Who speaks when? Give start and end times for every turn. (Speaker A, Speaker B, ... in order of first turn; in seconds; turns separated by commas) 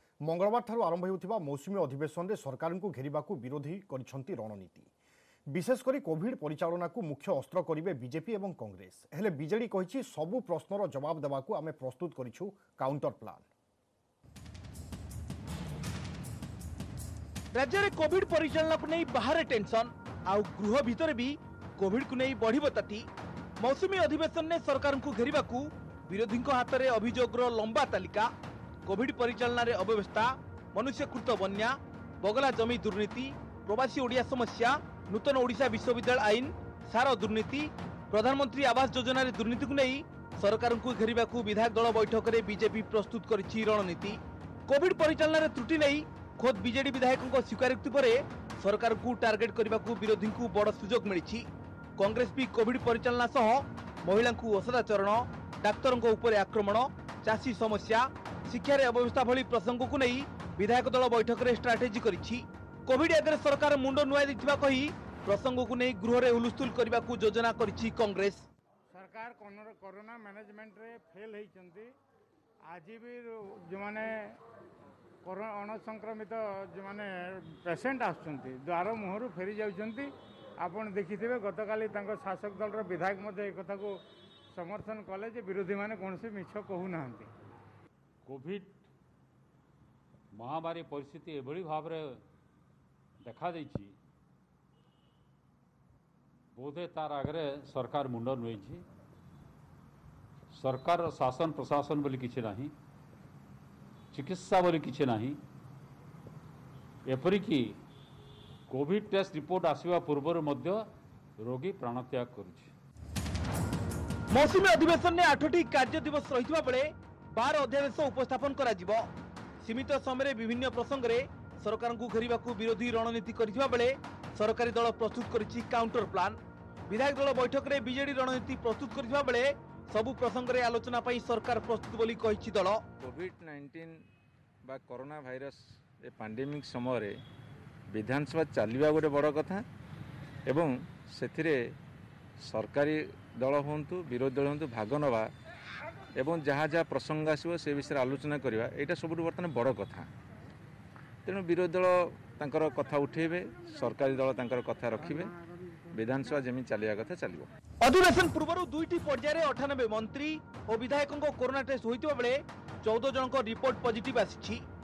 Speaker A: 0.2-4.9, Speaker A: 5.5-13.5, Speaker B: 17.5-23.1, Speaker B: 23.6-28.3, Speaker B: 28.8-51.4, Speaker B: 52.0-68.4, Speaker C: 68.9-71.9, Speaker C: 72.7-74.4, Speaker C: 75.2-84.0, Speaker C: 84.5-87.3, Speaker D: 88.2-88.9, Speaker D: 90.3-92.2, Speaker D: 93.2-94.0, Speaker D: 96.5-98.8, Speaker D: 100.5-102.7, Speaker D: 104.1-105.4, Speaker D: 107.1-107.8, Speaker D: 108.7-110.8, Speaker D: 111.4-112.7, Speaker B: 114.3-119.0, Speaker B: 119.6-132.9, Speaker E: 133.0-134.0, Speaker E: 134.6-137.2, Speaker E: 137.9-139.6, Speaker E: 140.4-141.6, Speaker E: 142.4-145.3, Speaker E: 146.1-150.1, Speaker E: 151.2-155.3, Speaker E: 155.9-157.5, Speaker B: 157.8-164.6